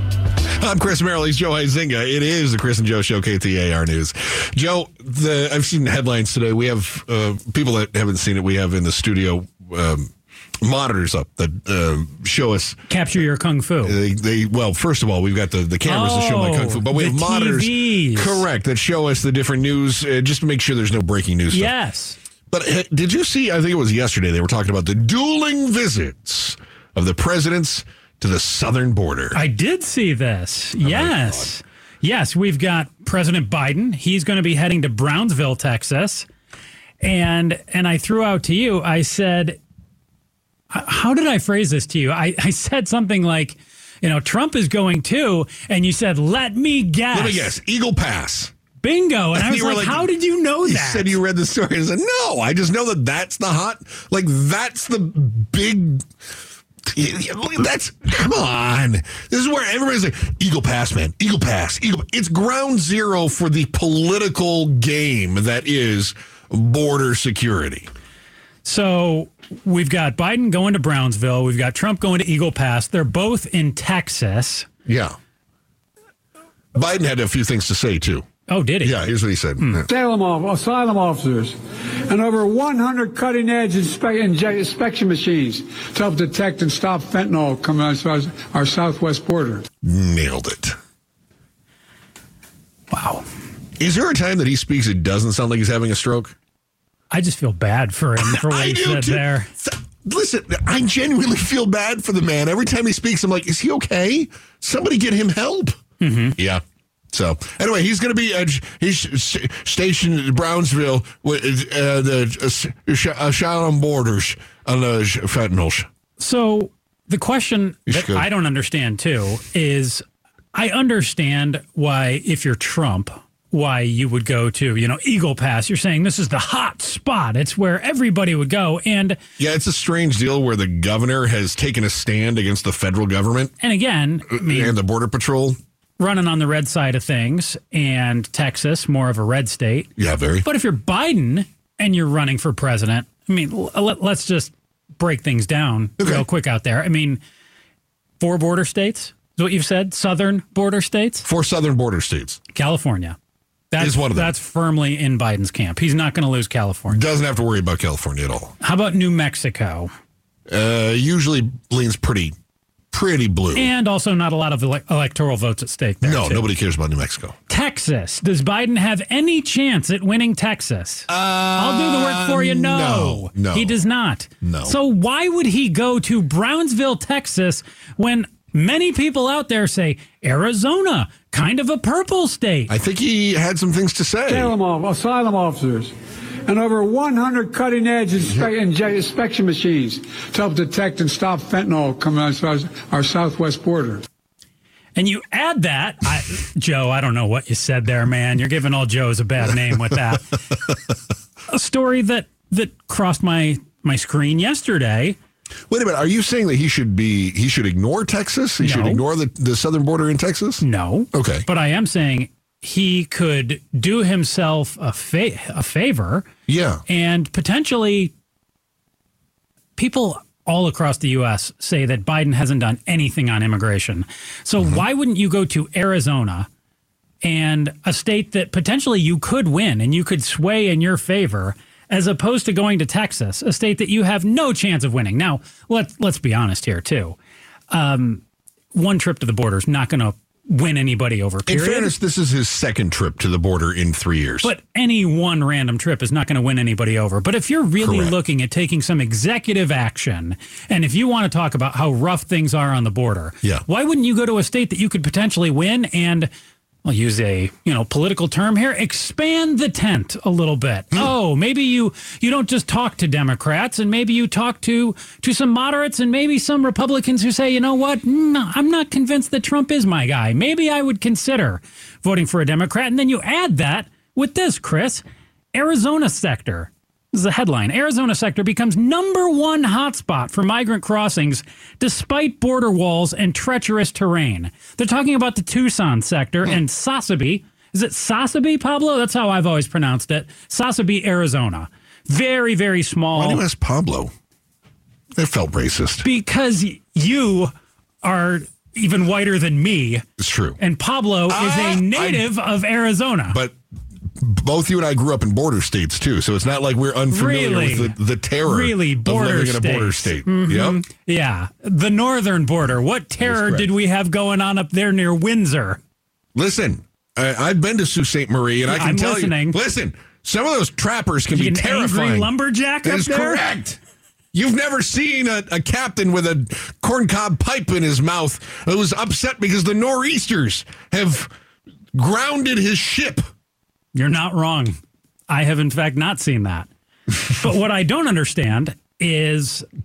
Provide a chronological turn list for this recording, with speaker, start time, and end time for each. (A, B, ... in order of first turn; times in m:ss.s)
0:00.6-0:12.8 A
0:12.9-0:14.0 B
0:13.8-0:21.7 A
0:15.8-0:18.4 B
0:21.5-0:22.2 B
0:22.5-0:29.4 A
0:29.3-0:36.3 B
0:30.8-0:31.5 A
0:37.0-0:39.6 B
0:40.7-0:47.5 B
0:47.1-0:48.5 A
0:48.8-0:51.2 B
0:49.3-0:50.1 A
0:50.6-0:56.0 A
0:56.8-1:07.9 A
1:08.6-1:14.7 B
1:14.8-1:15.2 A
1:16.7-1:18.2 A
1:18.5-1:19.0 B
1:18.8-1:19.9 A
1:19.9-1:21.6 C
1:22.1-1:29.6 C
1:29.8-1:30.8 A
1:32.9-1:33.2 B
1:33.8-1:36.3 A
1:37.1-1:39.5 B
1:38.2-1:45.8 A
1:46.0-1:46.4 B
1:46.4-1:55.9 A
1:56.2-2:09.2 B
1:57.9-1:58.2 A
2:09.4-2:13.5 A
2:13.6-2:14.7 B
2:14.3-2:15.6 A
2:16.0-2:19.9 B
2:20.0-2:20.4 A
2:20.4-2:27.2 B
2:26.0-2:26.2 A
2:28.2-2:31.2 B
2:31.2-2:32.4 A
2:32.5-2:33.2 B
2:33.7-2:37.0 B
2:33.8-2:34.3 A
2:36.9-2:38.5 A
2:38.6-2:39.9 B
2:40.5-2:42.3 A
2:42.9-2:43.7 A
2:43.5-2:46.5 B
2:46.0-2:47.3 A
2:47.5-3:02.7 B
2:51.1-2:53.8 A
2:54.4-2:54.8 A
3:02.7-3:04.5 A
3:04.3-3:05.9 C
3:06.5-3:14.0 C
3:15.0-3:20.2 B
3:21.5-3:25.2 B
3:25.7-3:31.4 A
3:28.6-3:29.0 B
3:30.6-3:36.2 B
3:36.5-3:36.8 A
3:36.9-3:38.1 B
3:39.8-3:46.5 B
3:47.2-3:57.2 B
3:57.7-3:58.2 B
3:58.7-4:01.9 B
4:01.4-4:04.5 A
4:04.4-4:16.3 B
4:07.8-4:08.2 A
4:16.8-4:35.0 B
4:35.5-4:53.4 B
4:53.1-4:54.1 A
4:55.1-4:56.0 A
4:56.0-4:57.5 B
4:58.0-5:00.0 B
5:00.2-5:00.6 A
5:00.6-5:03.4 B
5:01.3-5:02.2 A
5:03.3-5:03.6 A
5:04.2-5:10.8 A
5:07.1-5:15.8 B
5:13.2-5:13.7 A
5:16.3-5:22.3 A
5:18.6-5:19.6 B
5:21.3-5:23.4 B
5:22.8-5:23.8 A
5:24.3-5:31.3 A
5:31.9-5:33.2 A
5:33.9-5:34.8 B
5:35.3-5:39.6 B